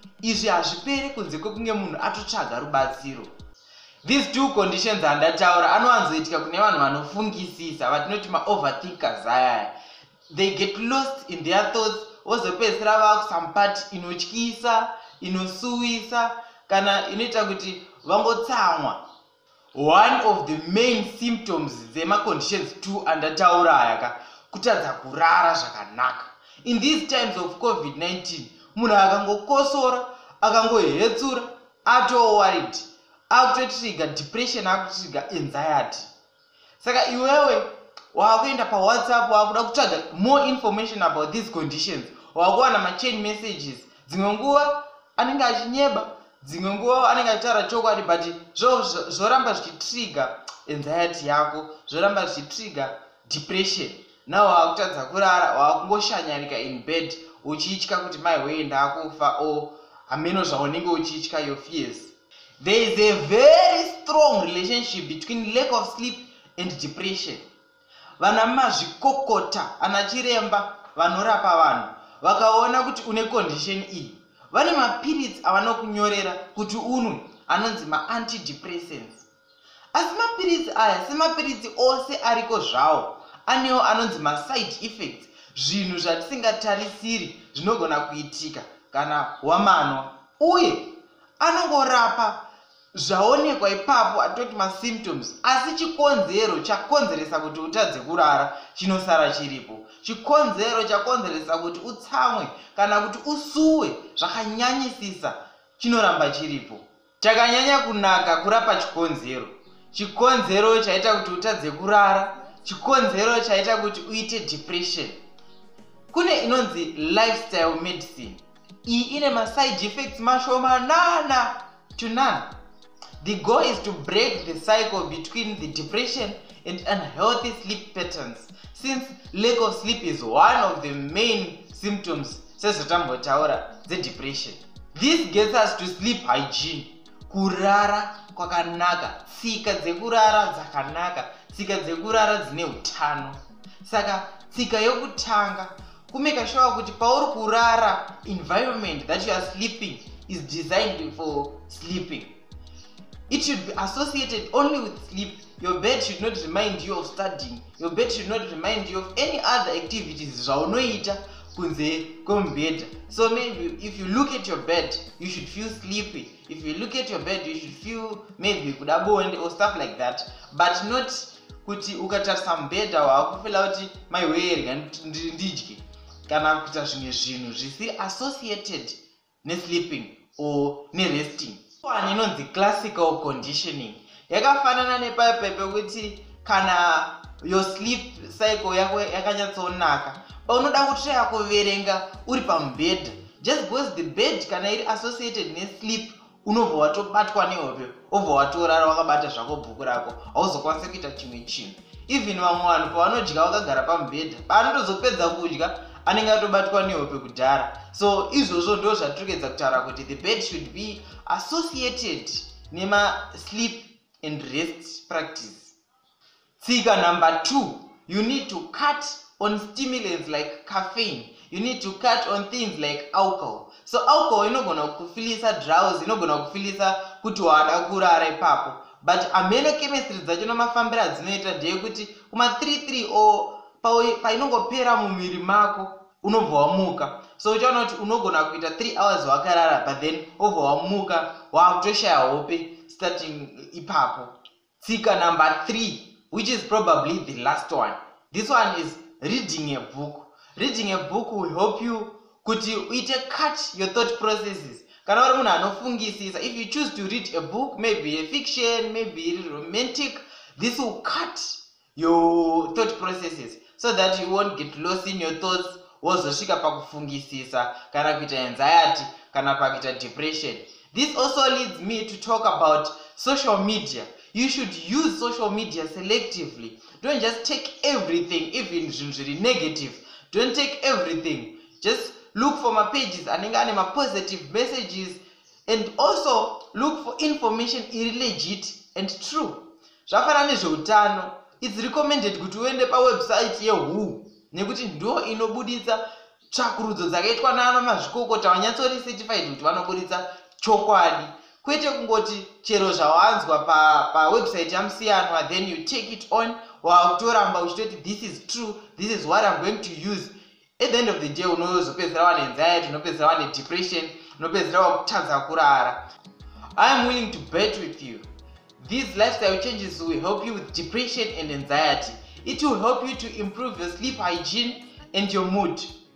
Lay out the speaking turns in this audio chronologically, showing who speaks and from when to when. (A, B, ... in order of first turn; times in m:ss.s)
0:00.2-0:03.3 A
0:04.0-0:09.7 A
0:10.3-0:19.0 A
0:19.8-0:36.1 A
0:36.8-1:07.4 A
1:08.2-1:19.3 A
1:19.9-1:32.4 A
1:32.9-1:55.2 A
1:56.1-2:02.5 A
2:03.2-2:32.3 A
2:33.3-3:35.8 A
3:36.6-5:16.0 A
5:16.8-5:18.2 A
5:18.8-5:25.9 A